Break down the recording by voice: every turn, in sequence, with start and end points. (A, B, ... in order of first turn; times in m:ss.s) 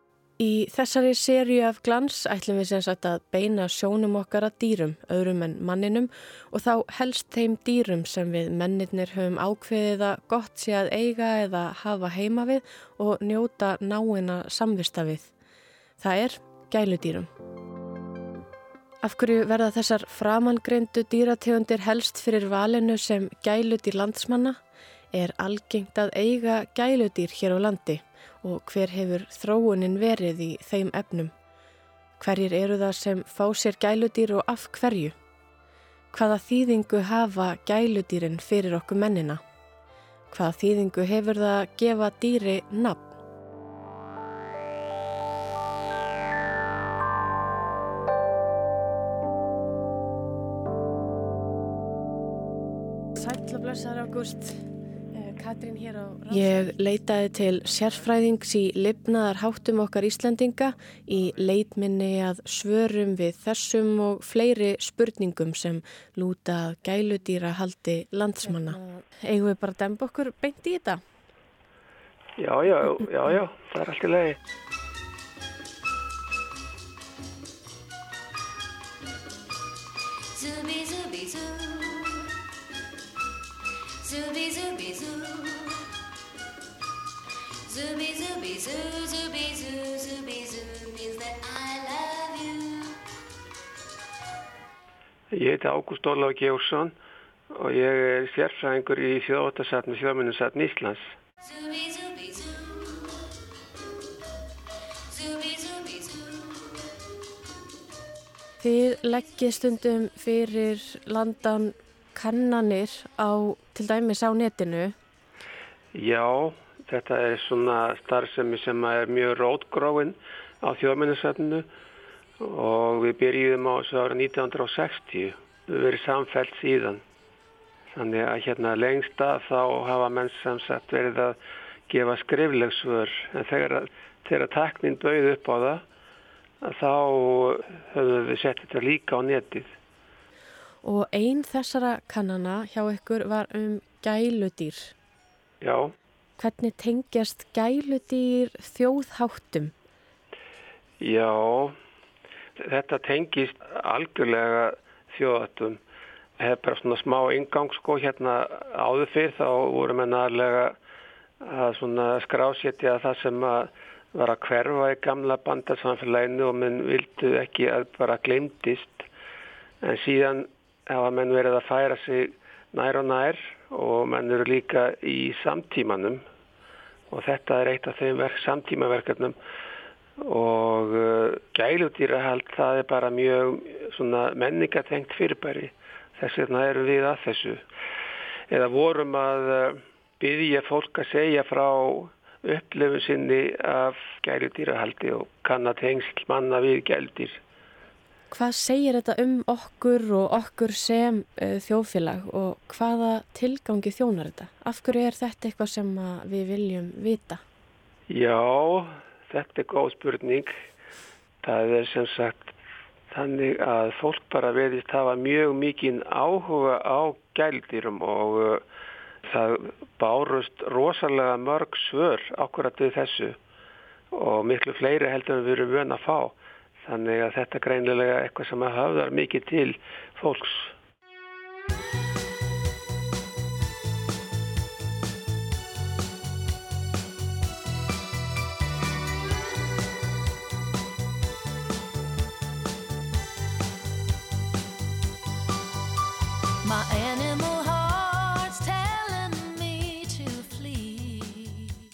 0:00.4-0:15.3 A
0:16.0-0:17.3 A
0:19.0-0:24.6 A
0:25.1-0:31.3 A
0:32.2-0:35.1 A
0:36.1-0:39.4 A
0:40.3-0:43.1 A
0:53.2-0:54.6 A
0:55.1-1:11.0 A
1:12.4-1:14.4 B
1:20.3-1:22.2 C
1:24.0-1:25.8 C
1:27.6-1:33.0 C
1:35.3-1:36.9 B
1:37.5-1:41.1 B
1:41.4-1:43.3 C
1:45.1-1:46.9 C
1:48.6-1:54.9 A
1:55.9-2:01.6 B
2:02.4-2:07.0 B
2:07.9-2:11.3 B
2:11.9-2:15.8 B
2:16.6-2:19.7 B
2:20.8-2:24.9 A
2:25.6-2:25.9 B
2:26.4-2:29.7 A
2:31.0-2:31.8 B
2:32.6-2:35.8 B
2:36.4-2:40.8 B
2:41.4-2:49.0 B
2:49.8-2:56.2 B
2:57.1-2:59.4 B
3:00.2-3:07.6 B
3:08.5-3:17.4 B
3:18.3-3:27.4 A
3:28.1-3:30.5 B
3:31.4-3:32.5 B
3:33.1-3:38.6 B
3:39.2-3:43.4 B
3:44.1-3:50.7 B
4:06.6-4:11.7 C